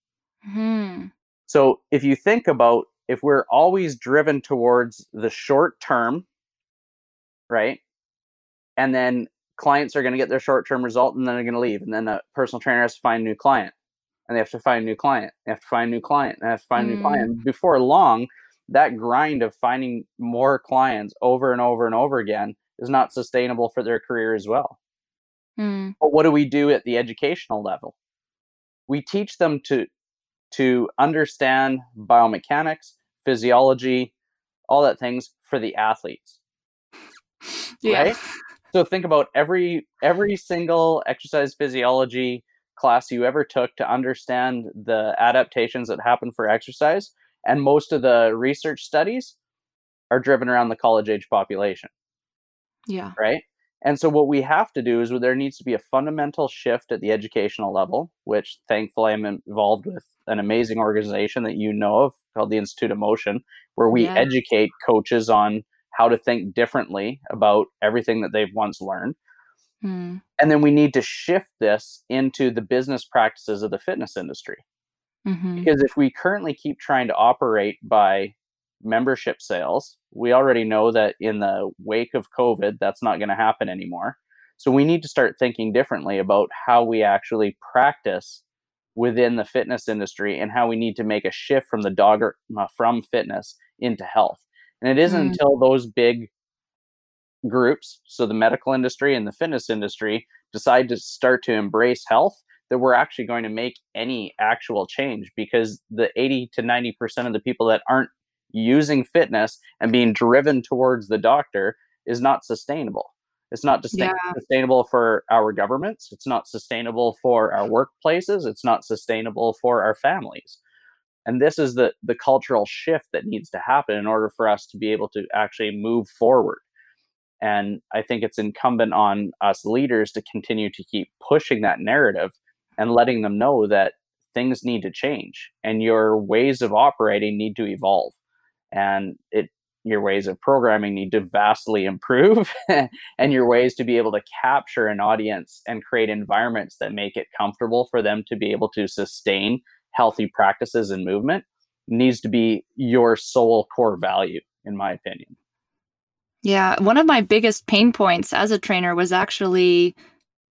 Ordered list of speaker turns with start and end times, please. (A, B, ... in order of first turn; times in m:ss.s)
0:00.4-0:01.1 A
0:01.5-0:06.2 B
0:07.5-0:07.8 B
0:08.8-0:13.7 B
0:14.3-0:24.8 B
0:16.8-0:17.4 A
0:25.6-0:25.9 A
0:26.0-0:27.9 B
0:28.9-0:29.9 B
0:30.5-0:34.1 B
0:34.7-0:36.4 B
0:37.8-0:38.2 A
0:37.8-0:38.2 B
0:38.7-0:49.4 B
0:50.1-0:51.9 B
0:52.9-0:53.2 A
0:53.2-1:09.2 B
1:03.9-1:04.3 A
1:09.8-1:10.2 A
1:10.4-1:14.6 B
1:15.3-1:15.7 A
1:15.6-1:28.4 B
1:29.0-1:36.3 B
1:35.1-1:35.4 A
1:37.4-2:00.6 B
1:53.9-1:54.4 A
2:01.3-2:06.6 B
2:07.4-2:18.2 B
2:18.7-2:35.3 B
2:36.4-2:40.0 A